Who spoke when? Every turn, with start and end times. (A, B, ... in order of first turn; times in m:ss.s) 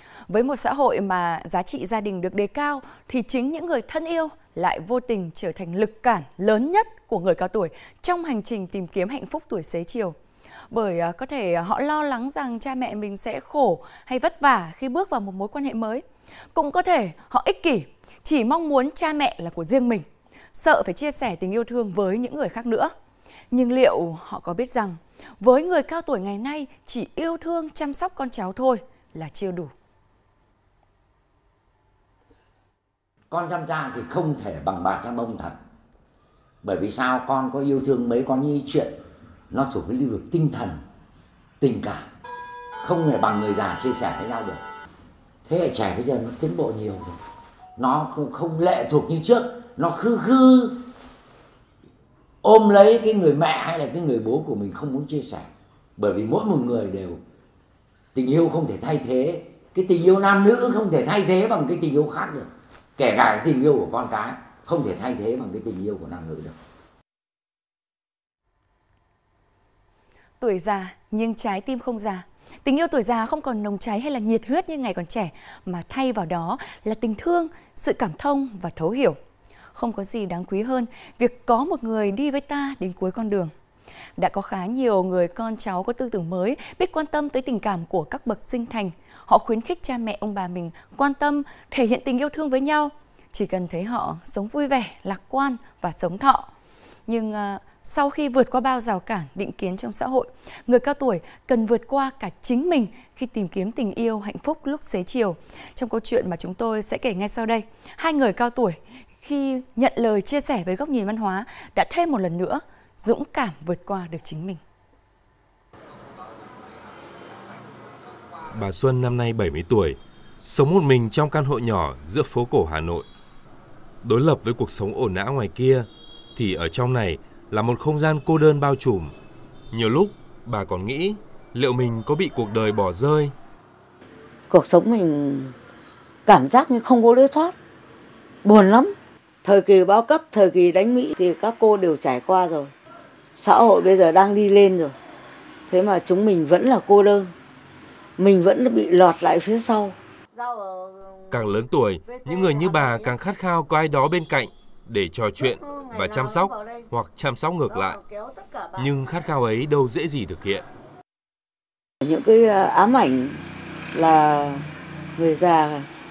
0:00.3-0:10.2 A
0:10.7-0:22.9 A
0:23.5-0:29.7 A
0:33.3-0:35.6 B
0:36.6-0:38.9 B
0:39.5-0:40.8 B
0:41.6-0:42.1 B
0:42.8-0:44.6 B
0:45.4-0:47.2 B
0:47.8-0:50.8 B
0:52.4-0:57.2 B
0:58.2-1:06.6 B
1:10.4-1:19.2 A
1:19.7-1:23.5 A
1:24.2-1:36.5 A
1:37.1-1:54.6 A
1:58.5-2:03.1 C
2:04.0-2:09.1 C
2:09.7-2:13.3 C
2:14.5-2:15.5 D
2:16.3-2:17.5 D
2:18.4-2:22.7 D
2:23.4-2:25.0 D
2:25.7-2:27.3 D
2:28.2-2:30.0 D
2:31.3-2:38.0 C
2:38.8-2:40.6 C
2:42.0-2:43.4 D
2:43.9-2:44.7 D
2:45.2-2:45.9 D